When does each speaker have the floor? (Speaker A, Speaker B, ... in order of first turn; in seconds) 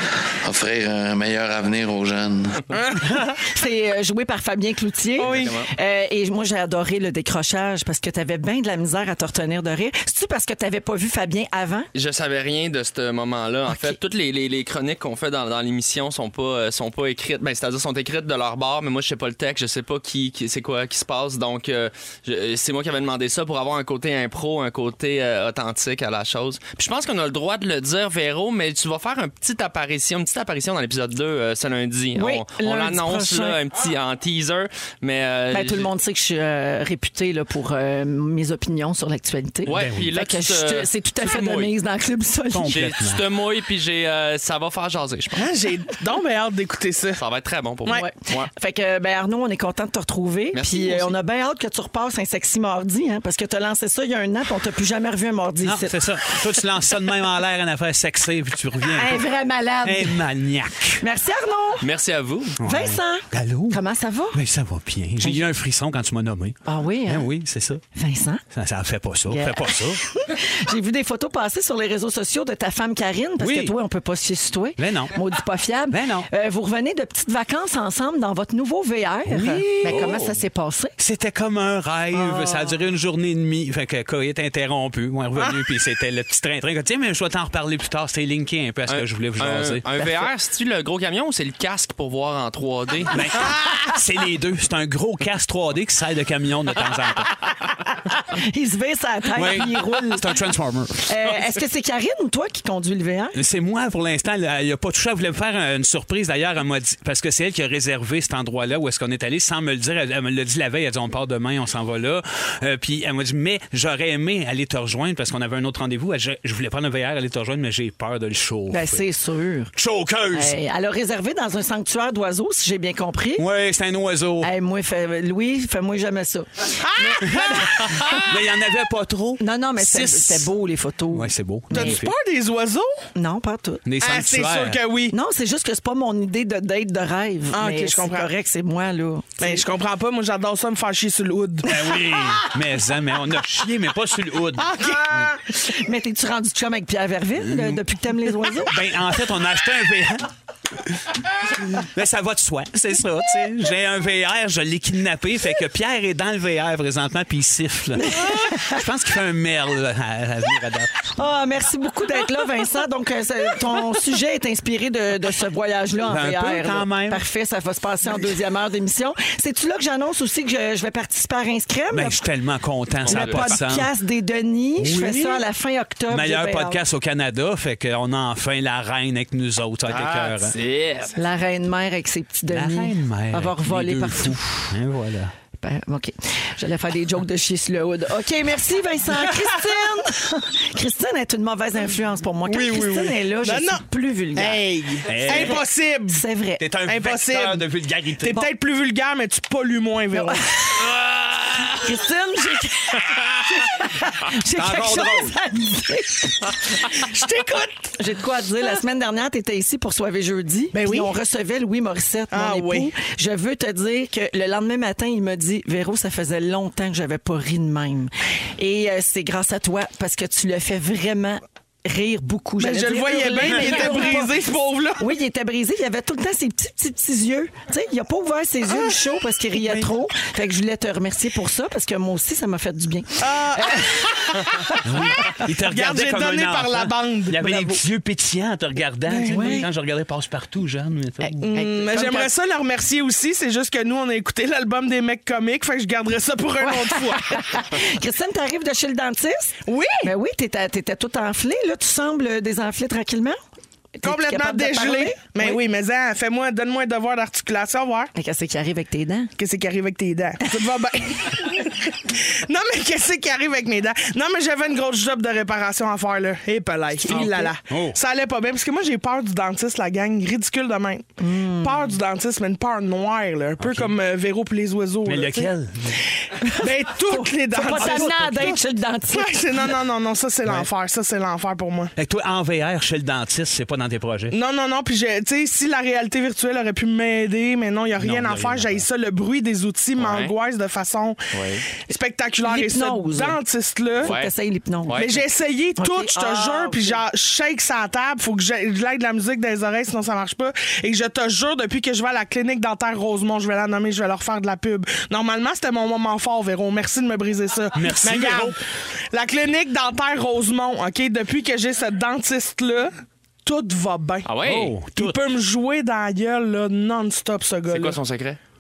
Speaker A: 0.4-2.6
Speaker B: 2.7-3.4, 5.2-5.6, 45.3-47.2, 126.8-128.3, 131.7-133.0, 134.0-135.2, 137.5-138.3, 139.4-142.0, 144.6-145.3, 192.7-193.8, 194.3-196.2, 196.9-197.6, 198.2-200.4, 206.9-208.0, 210.7-211.1, 212.3-212.9, 222.6-225.1, 233.2-237.8, 239.1-239.7, 241.4-247.6, 249.7-250.1, 254.0-258.1, 259.4-275.5, 276.5-281.9, 284.3-291.2, 291.9-294.1, 295.0-308.6, 309.1-312.9, 313.4-314.3, 314.9-318.0
Speaker C: 3.4-11.9, 13.7-14.0, 32.1-33.6, 35.5-42.9, 47.9-56.0, 58.9-60.3, 61.0-61.9, 62.6-64.4, 66.7-67.3, 68.0-68.4, 69.3-81.0, 82.1-82.7, 97.4-100.4, 101.1-103.4, 118.7-119.7, 120.3-123.5, 124.4-128.0, 129.4-132.0, 133.2-133.8, 135.1-139.7, 145.3-148.8, 158.0-158.8, 161.2-172.2, 173.1-176.8, 181.2-184.7, 185.6-194.7, 195.2-196.6, 200.1-200.8, 201.8-206.5, 208.0-224.3, 225.0-234.8, 239.3-239.7, 241.2-242.3, 246.6-253.4, 254.0-255.6, 258.1-259.3, 267.0-267.5, 271.2-271.9, 276.4-279.4, 292.4-293.4, 294.0-295.2, 295.8-297.0
Speaker D: 5.2-5.7, 11.9-35.9, 39.7-41.7, 42.7-45.4, 47.2-48.5, 50.5-51.1, 61.8-62.6, 79.9-80.4, 88.9-93.3, 173.0-173.6, 179.9-181.1, 290.0-290.3, 291.3-291.6, 294.0-294.3, 294.9-295.1, 314.2-314.8, 317.7-318.4
Speaker E: 39.7-40.1, 42.5-43.3, 55.6-59.2, 59.8-61.0, 62.6-63.8, 64.3-67.8, 68.5-70.0, 73.4-73.8, 74.8-75.2, 75.9-76.3, 79.3-80.2, 81.0-90.2, 93.1-97.4, 99.3-101.1, 103.3-119.0, 119.8-120.6, 123.4-124.5, 128.3-130.5, 131.1-132.1, 133.8-134.8, 141.6-145.3, 147.4-147.8, 148.4-161.1, 166.1-167.2, 171.9-173.9, 174.8-175.4, 176.1-180.6, 182.5-185.3, 192.5-192.9, 195.1-195.6, 196.6-198.5, 204.5-205.4, 234.8-241.4, 267.1-268.0, 273.6-274.0, 275.1-276.1, 277.7-278.6, 280.4-280.7, 282.0-284.4, 288.0-288.9, 307.7-308.6, 314.4-315.2